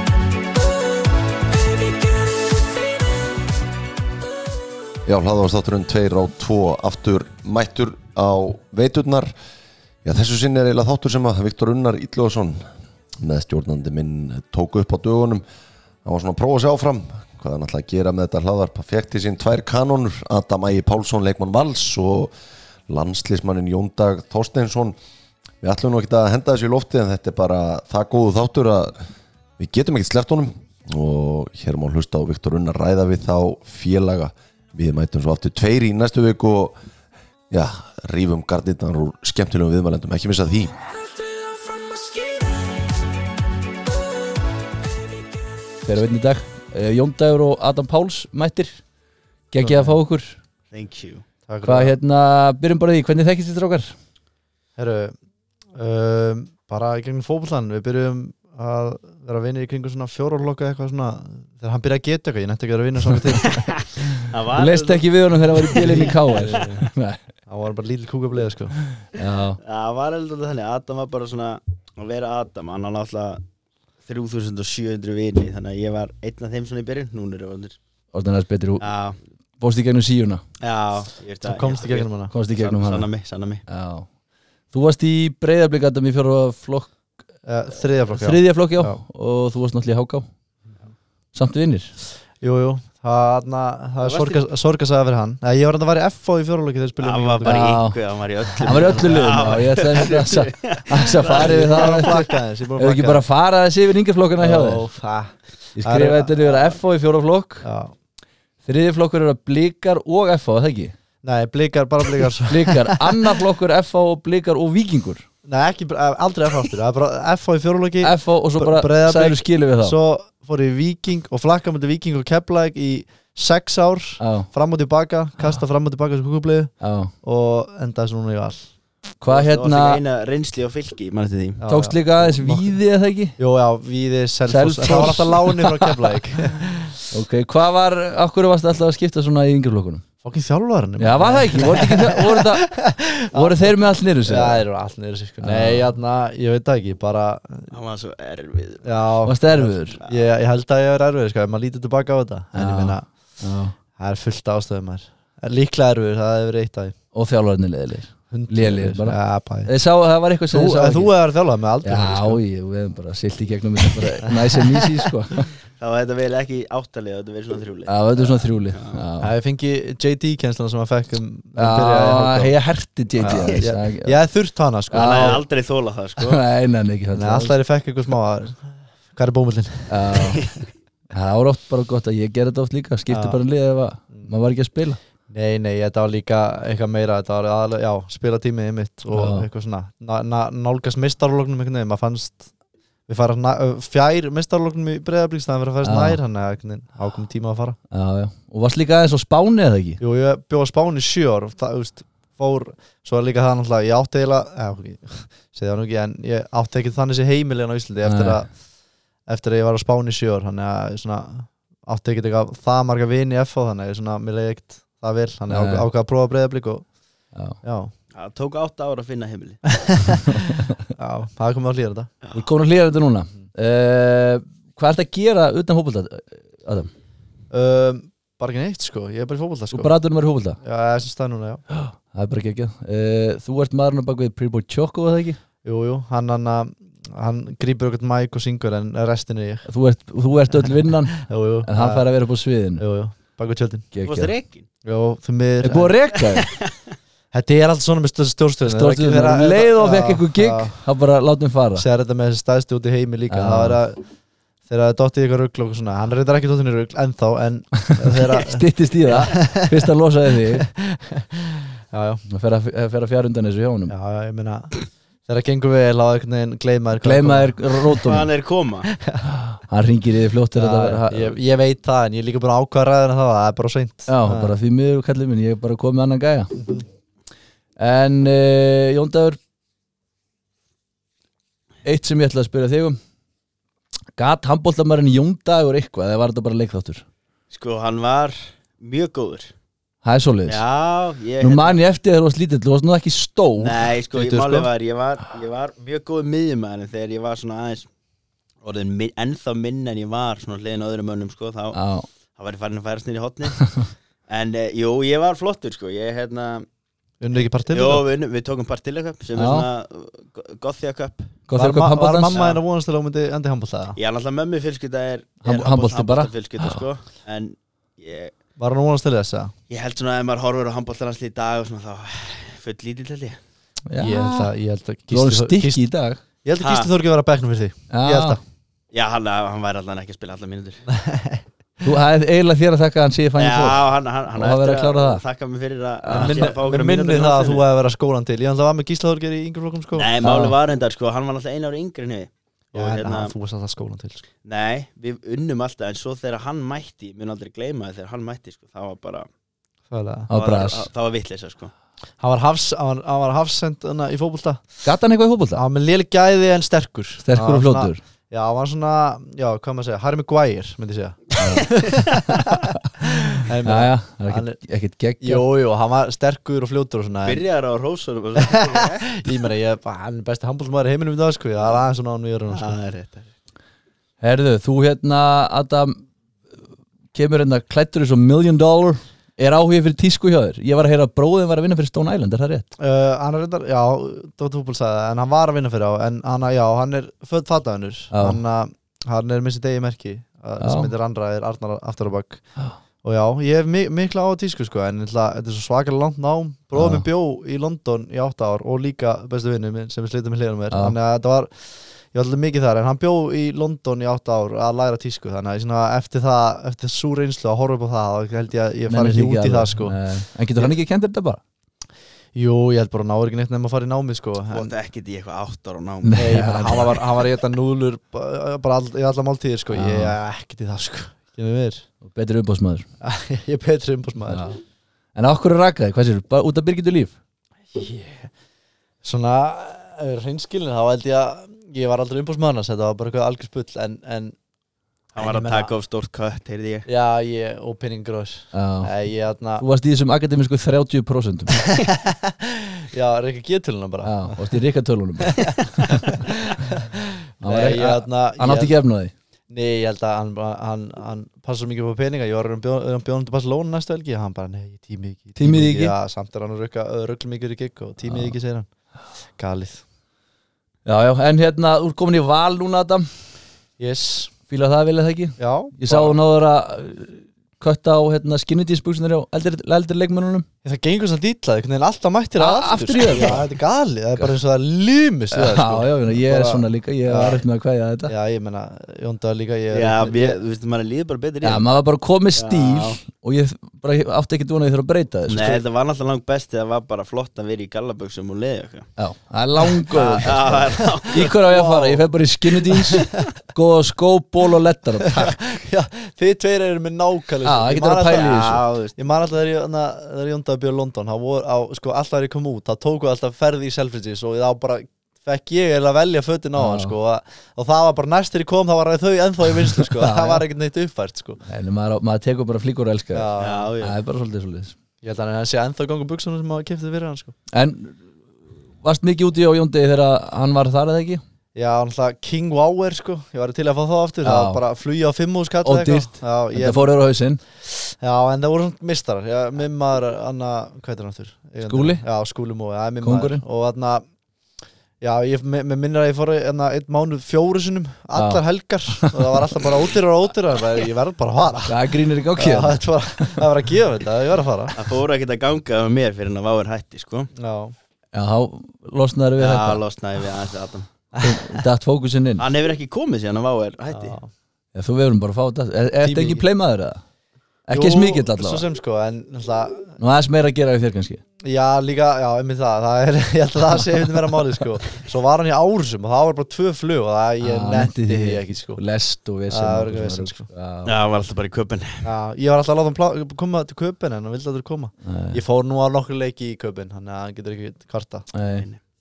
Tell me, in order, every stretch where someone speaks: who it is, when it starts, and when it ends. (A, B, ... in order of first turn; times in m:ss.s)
0:00.6-0:03.3 A
0:05.0-0:09.3 B
0:10.0-0:12.6 B
0:13.2-0:15.4 B
0:16.0-0:22.3 B
0:22.9-0:25.0 B
0:25.6-0:28.9 B
0:29.6-0:36.8 B
0:37.5-0:40.7 B
0:41.1-0:42.8 A
0:45.8-0:48.8 C
0:49.5-0:50.4 C
0:49.6-0:50.0 D
0:50.7-0:51.2 E
0:51.5-0:52.0 D
0:51.6-0:53.9 C
0:54.8-0:55.1 D
0:55.7-1:03.8 D
1:03.5-1:06.6 E
1:04.5-1:07.2 C
1:05.7-1:06.9 D
1:07.5-1:08.7 D
1:09.1-1:09.6 C
1:09.6-1:13.4 E
1:14.0-1:17.8 E
1:18.1-1:18.8 C
1:18.8-1:19.2 E
1:19.6-1:20.4 C
1:20.6-1:23.6 E
1:21.4-1:22.3 D
1:22.3-1:23.1 C
1:23.7-1:24.1 C
1:24.7-1:26.9 C
1:27.4-1:29.0 D
1:28.1-1:30.3 C
1:31.3-1:31.9 C
1:32.4-1:37.8 D
1:34.0-1:34.4 E
1:37.0-1:42.3 E
1:37.4-1:38.0 C
1:38.6-1:39.4 D
1:38.6-1:42.2 C
1:41.2-1:43.2 D
1:42.8-1:44.9 C
1:44.4-1:46.6 D
1:45.8-1:47.6 C
1:47.6-1:47.9 D
1:48.6-1:50.9 C
1:51.2-1:53.3 D
1:52.5-1:55.2 C
1:55.4-2:08.7 D
1:58.0-2:00.0 C
2:04.2-2:04.5 C
2:06.8-2:07.1 C
2:09.2-2:10.0 C
2:09.3-2:11.6 E
2:11.6-2:12.7 D
2:11.7-2:13.4 C
2:13.4-2:17.0 D
2:14.5-2:16.2 C
2:17.1-2:20.0 C
2:20.2-2:27.7 D
2:21.0-2:22.7 C
2:23.3-2:24.6 C
2:25.4-2:25.9 C
2:27.7-2:29.0 E
2:28.8-2:33.1 D
2:29.2-2:30.0 C
2:32.5-2:33.7 C
2:34.0-2:37.0 D
2:37.1-2:41.1 C
2:38.3-2:39.7 D
2:40.5-2:42.4 D
2:41.8-2:45.5 C
2:45.8-2:49.0 E
2:47.9-2:49.3 C
2:49.2-2:52.6 D
2:51.6-2:54.2 C
2:53.2-2:55.4 D
2:53.2-2:53.6 E
2:54.9-2:55.4 C
2:54.9-2:56.4 E
2:56.2-2:57.5 C
2:57.1-3:00.2 D
2:59.9-3:00.4 C
3:00.3-3:00.6 E
3:01.1-3:05.0 C
3:03.1-3:03.4 D
3:05.3-3:12.5 D
3:09.1-3:09.5 C
3:13.1-3:17.8 D
3:15.8-3:16.2 C
3:17.9-3:20.0 C
3:20.0-3:28.5 D
3:28.0-3:28.4 C
3:29.3-3:36.8 D
3:35.5-3:35.8 C
3:37.6-3:37.9 D
3:38.1-3:39.7 E
3:39.8-3:42.1 D
3:40.3-3:40.7 C
3:42.3-3:46.9 C
3:47.5-3:49.9 D
3:49.7-3:50.6 C
3:50.6-3:51.6 D
3:51.7-3:55.4 C
3:55.6-3:59.7 D
3:59.7-4:02.8 C
4:01.2-4:02.1 D
4:02.8-4:03.9 D
4:03.9-4:04.3 C
4:04.0-4:04.6 E
4:04.8-4:05.9 D
4:05.6-4:06.5 C
4:06.4-4:06.7 E
4:07.3-4:10.8 D
4:08.6-4:11.8 C
4:11.8-4:14.0 D
4:13.3-4:13.8 C
4:14.7-4:19.8 D
4:17.9-4:20.7 C
4:20.6-4:22.2 D
4:22.3-4:23.9 C
4:23.9-4:24.7 D
4:25.2-4:28.0 D
4:27.0-4:28.3 C
4:27.9-4:28.9 E
4:28.9-4:29.2 D
4:29.2-4:31.4 C
4:30.6-4:34.5 D
4:34.1-4:36.6 C
4:36.6-4:36.8 D
4:37.8-4:39.4 C
4:41.8-4:43.0 C
4:44.2-4:47.0 C
4:47.5-4:49.5 E
4:50.0-4:50.6 C
4:50.5-4:51.8 E
4:51.4-4:53.8 C
4:53.6-4:57.9 E
4:54.1-4:54.7 D
4:58.6-5:01.8 E
5:01.7-5:02.0 C
5:02.4-5:03.7 E
5:03.6-5:03.8 C
5:04.3-5:06.6 E
5:07.2-5:08.0 D
5:07.7-5:11.4 E
5:09.3-5:09.7 C
5:11.5-5:12.4 C
5:11.6-5:14.0 D
5:12.3-5:12.6 E
5:14.0-5:18.3 E
5:15.4-5:16.8 C
5:18.6-5:19.5 D
5:19.7-5:23.4 E
5:23.9-5:24.5 C
5:24.0-5:25.8 D
5:25.1-5:26.2 C
5:26.4-5:28.4 D
5:26.6-5:26.9 E
5:27.9-5:28.4 C
5:28.9-5:30.8 E
5:30.9-5:31.4 D
5:31.8-5:35.2 C
5:33.4-5:37.6 E
5:36.1-5:36.5 C
5:36.1-5:40.1 D
5:39.9-5:43.3 E
5:40.2-5:40.5 C
5:42.7-5:44.2 D
5:44.4-5:49.3 E
5:49.9-5:50.3 D
5:50.3-5:50.9 C
5:50.3-5:51.7 E
5:52.2-5:54.6 D
5:54.8-5:55.6 C
5:55.5-6:02.5 D
5:57.2-5:58.0 C
6:01.4-6:01.8 C
6:02.4-6:02.8 C
6:03.0-6:04.6 D
6:03.6-6:05.4 C
6:05.2-6:07.4 D
6:07.2-6:09.4 E
6:08.4-6:12.8 D
6:12.5-6:13.3 E
6:14.2-6:16.0 C
6:17.1-6:22.7 C
6:22.8-6:32.4 D
6:28.1-6:28.4 C
6:30.6-6:30.9 C
6:33.0-6:50.0 D
6:36.8-6:37.0 C
6:40.7-6:41.0 C
6:48.9-6:51.4 C
6:52.3-6:54.7 D
6:54.5-6:56.8 E
6:56.0-6:56.9 C
6:56.2-7:01.8 D
6:59.7-7:00.2 C
7:02.0-7:02.8 C
7:03.0-7:04.4 D
7:04.3-7:04.6 C
7:05.1-7:07.2 C
7:07.7-7:08.3 D
7:09.0-7:14.3 D
7:15.1-7:16.9 E
7:15.2-7:15.7 D
7:16.9-7:19.6 D
7:18.5-7:18.9 C
7:19.6-7:21.6 C
7:21.7-7:24.4 D
7:24.0-7:25.5 C
7:25.2-7:28.7 D
7:27.4-7:29.1 C
7:29.5-7:38.7 D
7:35.4-7:35.9 C
7:38.1-7:38.3 C
7:39.4-7:39.8 D
7:40.8-7:43.1 C
7:43.8-7:44.3 D
7:44.5-7:50.4 C
7:45.4-7:46.2 D
7:50.6-7:57.4 D
7:52.4-7:53.4 C
7:55.3-7:58.1 C
7:58.1-8:00.4 D
7:59.7-8:01.6 E
8:01.4-8:05.6 C
8:02.3-8:03.0 E
8:05.3-8:08.9 E
8:09.0-8:15.4 C
8:09.9-8:12.1 D
8:09.9-8:11.4 E
8:15.1-8:31.4 D
8:17.4-8:18.6 C
8:18.1-8:19.0 E
8:26.6-8:26.9 C
8:29.8-8:30.4 C
8:31.4-8:34.7 C
8:33.1-8:33.7 D
8:33.4-8:34.0 E
8:35.0-8:37.3 D
8:37.5-8:38.0 C
8:38.8-8:41.2 C
8:41.5-8:47.0 D
8:44.2-8:44.6 C
8:45.6-8:47.4 C
8:47.6-8:54.0 D
8:51.6-8:52.0 C
8:53.0-8:53.4 C
8:55.0-9:01.8 D
8:58.2-8:58.4 C
9:01.7-9:03.4 C
9:02.4-9:04.8 D
9:04.8-9:07.3 E
9:07.4-9:07.7 D
9:08.1-9:09.8 C
9:09.4-9:10.9 E
9:11.1-9:11.6 D
9:11.2-9:12.4 C
9:12.4-9:14.2 E
9:13.9-9:14.3 D
9:14.7-9:17.0 C
9:16.0-9:16.4 D
9:17.7-9:18.6 C
9:17.7-9:20.0 D
9:20.0-9:21.2 C
9:21.4-9:28.8 D
9:27.4-9:30.9 C
9:29.5-9:30.5 D
9:30.8-9:32.1 E
9:32.0-9:38.3 D
9:35.0-9:35.4 C
9:38.3-9:38.6 C